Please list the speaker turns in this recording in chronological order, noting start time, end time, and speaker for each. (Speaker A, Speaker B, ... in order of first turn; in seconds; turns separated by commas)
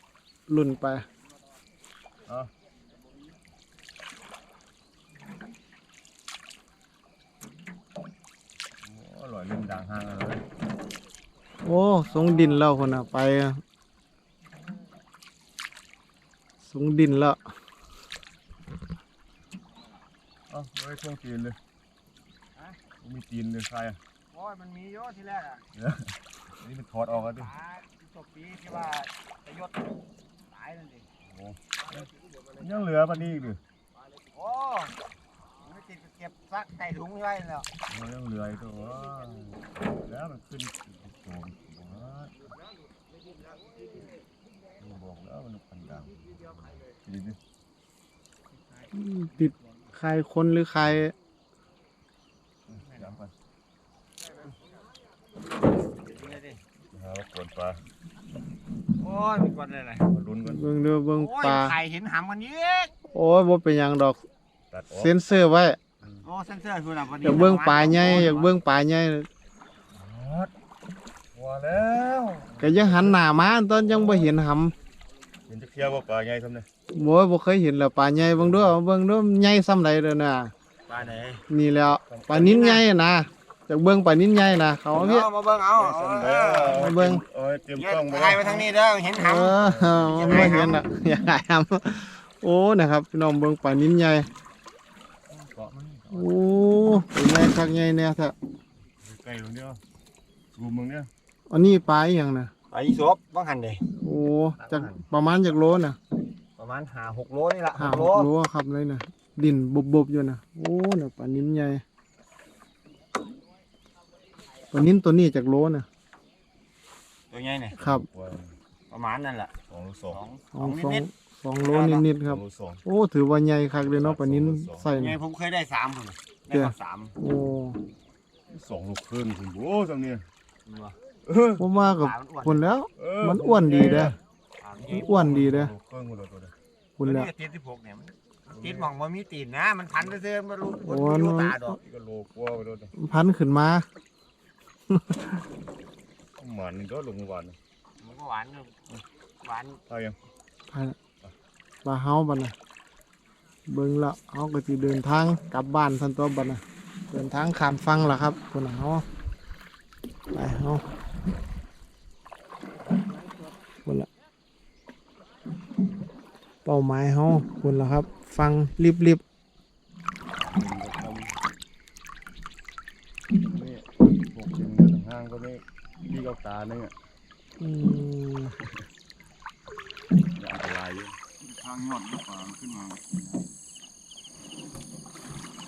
Speaker A: 0.5-1.0, Speaker B: 2.2-2.5, Speaker B: 8.8-10.4, Speaker A: 11.6-13.6, Speaker C: 12.2-12.6, Speaker A: 16.6-17.4, Speaker B: 20.5-21.6, Speaker B: 23.0-24.0, Speaker C: 24.3-25.6, Speaker B: 25.7-27.5, Speaker C: 27.3-31.1, Speaker B: 31.2-32.0, Speaker C: 31.9-32.5, Speaker B: 32.6-33.6, Speaker C: 34.3-35.0, Speaker C: 35.6-37.7, Speaker B: 37.9-42.3, Speaker B: 44.8-47.4, Speaker A: 48.9-51.1, Speaker B: 52.7-53.3, Speaker C: 55.8-56.6, Speaker B: 56.9-57.8, Speaker C: 59.0-60.1, Speaker B: 60.0-60.7, Speaker A: 60.4-61.8, Speaker C: 61.1-62.9, Speaker A: 63.1-64.2, Speaker B: 64.7-65.1, Speaker A: 65.0-65.8, Speaker C: 66.2-68.5, Speaker A: 67.2-69.3, Speaker B: 69.9-70.5, Speaker B: 71.3-74.3, Speaker A: 72.6-74.7, Speaker B: 75.5-76.7, Speaker A: 76.9-80.5, Speaker B: 78.2-78.8, Speaker C: 80.9-81.4, Speaker A: 81.5-85.3, Speaker B: 82.1-82.7, Speaker C: 82.3-82.8, Speaker C: 84.9-86.8, Speaker B: 85.7-88.7, Speaker A: 86.7-87.2, Speaker C: 87.7-89.6, Speaker A: 89.2-94.3, Speaker B: 89.4-90.8, Speaker C: 90.1-90.8, Speaker B: 95.3-96.3, Speaker A: 96.1-98.3, Speaker B: 99.0-99.8, Speaker B: 100.5-101.1, Speaker A: 101.5-102.5, Speaker C: 102.7-103.8, Speaker A: 104.0-106.0, Speaker C: 104.6-105.0, Speaker C: 106.6-108.3, Speaker A: 107.8-111.8, Speaker A: 114.7-115.9, Speaker C: 117.3-117.8, Speaker B: 117.8-118.5, Speaker A: 117.8-118.0, Speaker C: 118.9-119.5, Speaker B: 119.7-120.2, Speaker C: 120.1-121.0, Speaker A: 120.5-125.2, Speaker C: 121.6-122.1, Speaker B: 122.2-122.8, Speaker B: 123.8-124.9, Speaker C: 124.9-127.1, Speaker A: 126.5-127.8, Speaker B: 128.5-130.2, Speaker C: 130.7-130.9, Speaker B: 131.2-131.6, Speaker A: 131.6-134.2, Speaker C: 131.7-132.6, Speaker B: 133.0-134.2, Speaker C: 134.6-135.1, Speaker B: 134.8-136.5, Speaker A: 134.9-135.7, Speaker A: 137.0-137.3, Speaker C: 137.0-141.8, Speaker B: 138.5-138.9, Speaker A: 140.9-141.5, Speaker B: 141.7-142.9, Speaker A: 142.9-143.8, Speaker A: 144.9-145.4, Speaker B: 146.4-147.6, Speaker C: 148.0-149.8, Speaker B: 149.9-150.2, Speaker A: 150.7-151.0, Speaker A: 151.8-152.5, Speaker A: 153.7-159.0, Speaker A: 160.3-160.8, Speaker A: 166.6-169.2, Speaker B: 170.3-171.3, Speaker B: 173.4-176.9, Speaker A: 177.6-178.6, Speaker B: 180.3-183.5